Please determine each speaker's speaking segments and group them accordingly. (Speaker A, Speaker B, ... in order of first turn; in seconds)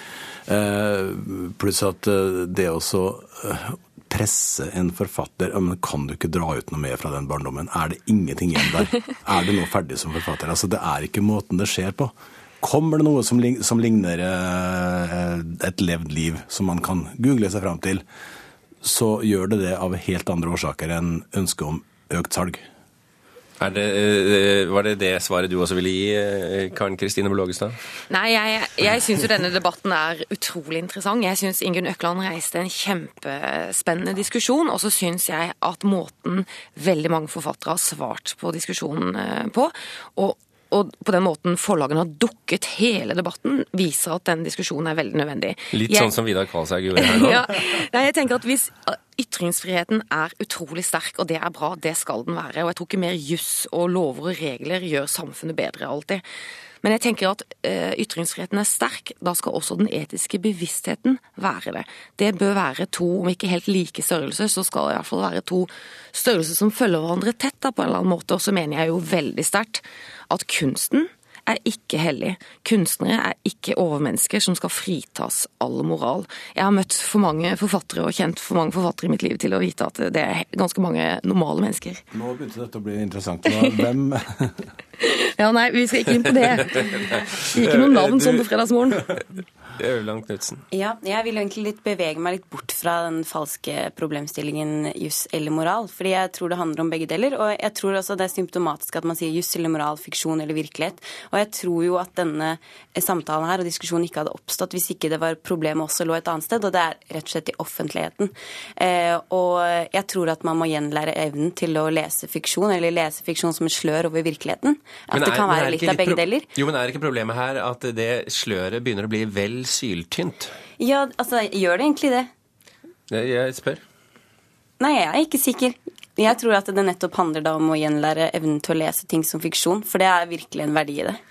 Speaker A: 0.5-18.0, 18.8-22.6, 82.1-84.7
Speaker B: 23.6-27.8, 45.7-47.4, 87.7-88.5, 89.8-90.6, 115.1-120.5, 123.1-123.8
Speaker C: 28.1-46.1, 47.0-56.2, 56.8-82.0, 85.0-89.0
Speaker D: 90.7-116.4, 120.8-122.3, 124.8-131.2